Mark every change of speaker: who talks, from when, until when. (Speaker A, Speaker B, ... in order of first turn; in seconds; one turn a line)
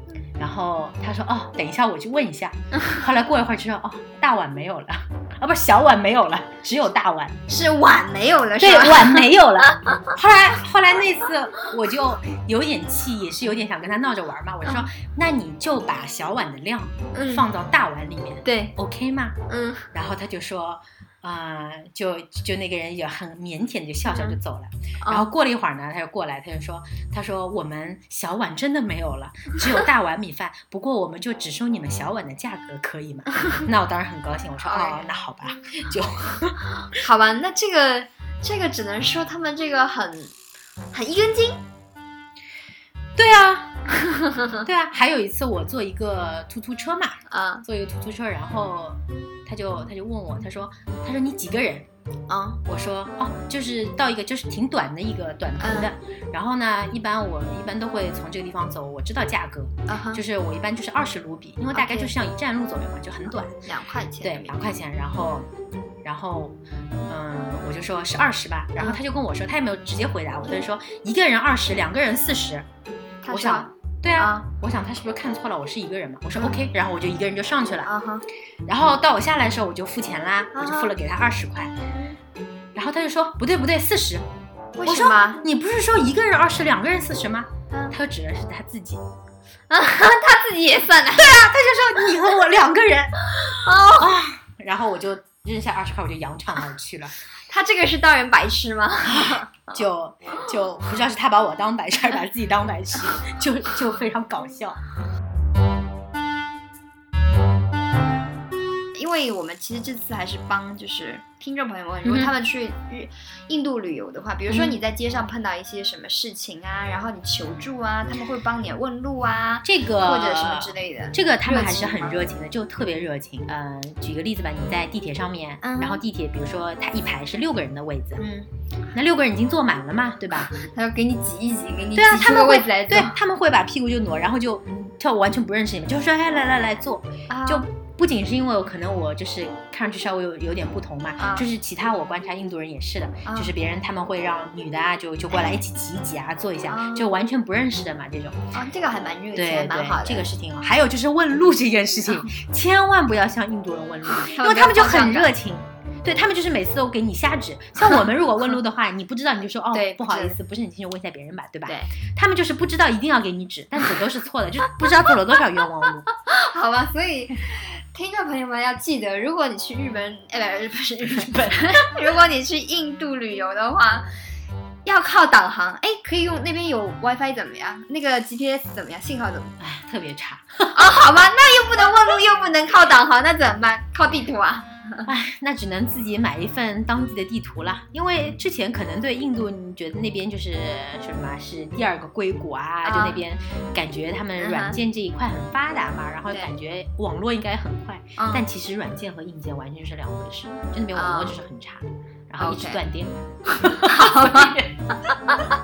Speaker A: 0.4-7.4
Speaker B: 7.5-10.0
Speaker A: 8.6-19.4
Speaker B: 17.1-17.4
Speaker B: 18.4-18.7
Speaker B: 19.5-19.9
Speaker A: 19.9-36.6
Speaker B: 24.1-24.4
Speaker B: 25.0-25.3
Speaker B: 34.6-35.1
Speaker B: 36.9-40.3
Speaker B: 40.9-41.6
Speaker A: 43.2-43.7
Speaker A: 44.6-51.9
Speaker B: 47.3-47.6
Speaker B: 52.3-52.6
Speaker A: 52.6-63.5
Speaker B: 55.6-55.9
Speaker B: 59.9-60.2
Speaker B: 61.7-62.1
Speaker B: 63.6-64.6
Speaker A: 64.2-65.5
Speaker A: 66.0-72.6
Speaker B: 73.2-74.4
Speaker A: 73.3-77.9
Speaker B: 77.8-78.2
Speaker A: 78.7-81.7
Speaker B: 80.5-80.9
Speaker B: 81.9-82.2
Speaker A: 82.7-84.2
Speaker B: 84.8-85.4
Speaker A: 84.8-89.0
Speaker B: 87.7-88.0
Speaker B: 89.7-91.4
Speaker A: 91.2-93.3
Speaker B: 93.3-94.1
Speaker A: 93.9-97.1
Speaker B: 97.5-99.8
Speaker A: 99.0-104.8
Speaker B: 108.9-122.2
Speaker A: 112.0-112.3
Speaker A: 114.5-114.8
Speaker A: 119.6-128.2
Speaker B: 125.6-126.0
Speaker B: 128.2-128.5
Speaker A: 128.9-130.5
Speaker B: 130.4-133.2
Speaker A: 131.9-148.4
Speaker B: 137.3-137.7
Speaker B: 141.2-141.5
Speaker B: 143.2-143.5
Speaker B: 145.3-145.6
Speaker B: 146.7-147.1
Speaker B: 148.5-150.3
Speaker A: 149.3-166.1
Speaker B: 154.1-155.3
Speaker B: 159.7-160.4
Speaker B: 161.7-161.9
Speaker B: 166.2-174.1
Speaker B: 174.8-179.5
Speaker A: 179.6-180.8
Speaker B: 180.7-185.1
Speaker A: 185.1-204.7
Speaker B: 192.8-193.2
Speaker B: 194.4-194.8
Speaker B: 198.2-198.4
Speaker B: 200.9-201.4
Speaker B: 202.4-202.8
Speaker B: 203.4-204.6
Speaker B: 205.1-205.4